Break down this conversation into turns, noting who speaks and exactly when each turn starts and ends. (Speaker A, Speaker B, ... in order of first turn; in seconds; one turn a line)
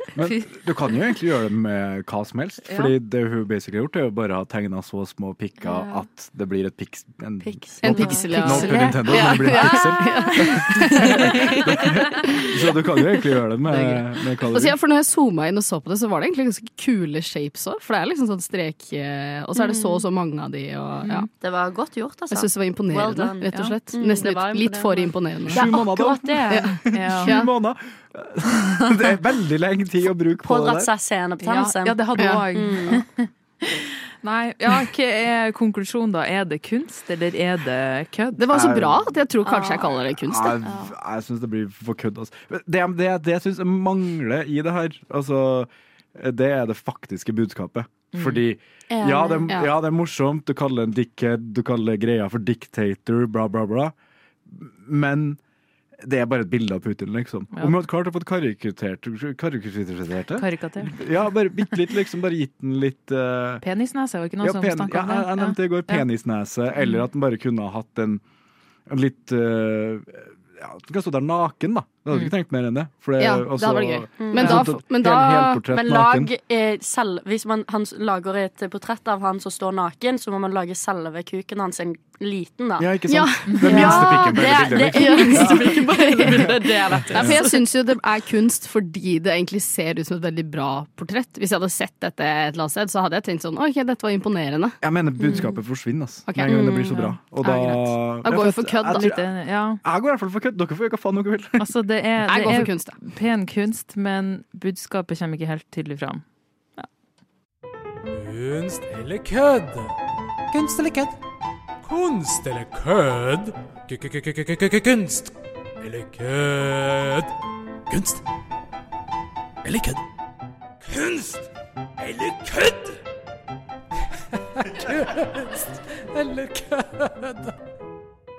Speaker A: 0.1-14.8
Speaker B: 2.7-3.0
Speaker C: 7.4-8.8
Speaker D: 7.8-12.8
Speaker B: 8.2-11.0
Speaker D: 14.4-21.3
Speaker C: 19.6-20.0
Speaker C: 21.3-26.8
Speaker D: 22.3-25.6
Speaker B: 23.5-23.8
Speaker A: 25.5-30.9
Speaker D: 26.5-27.5
Speaker B: 26.9-27.4
Speaker C: 30.4-32.0
Speaker B: 31.4-38.4
Speaker D: 32.2-32.4
Speaker C: 32.5-33.0
Speaker D: 38.4-40.6
Speaker A: 38.5-39.2
Speaker C: 39.4-40.0
Speaker A: 40.2-53.9
Speaker B: 48.1-48.4
Speaker C: 48.9-49.5
Speaker A: 54.5-55.4
Speaker A: 56.0-63.6
Speaker B: 60.4-61.0
Speaker B: 63.6-66.1
Speaker A: 64.4-68.2
Speaker A: 68.9-76.3
Speaker D: 73.2-75.6
Speaker C: 74.2-74.7
Speaker C: 75.7-82.9
Speaker A: 82.8-86.5
Speaker D: 83.1-94.8
Speaker C: 83.6-87.7
Speaker A: 87.0-87.5
Speaker A: 94.8-101.7
Speaker C: 95.2-95.6
Speaker D: 96.3-99.1
Speaker C: 96.4-97.0
Speaker B: 98.9-99.8
Speaker B: 101.6-106.2
Speaker D: 102.2-103.0
Speaker E: 108.1-110.0
Speaker E: 110.5-111.2
Speaker E: 111.8-117.3
Speaker E: 117.9-118.2
Speaker E: 119.6-120.0
Speaker E: 120.9-121.5
Speaker E: 122.0-123.0
Speaker E: 124.6-127.5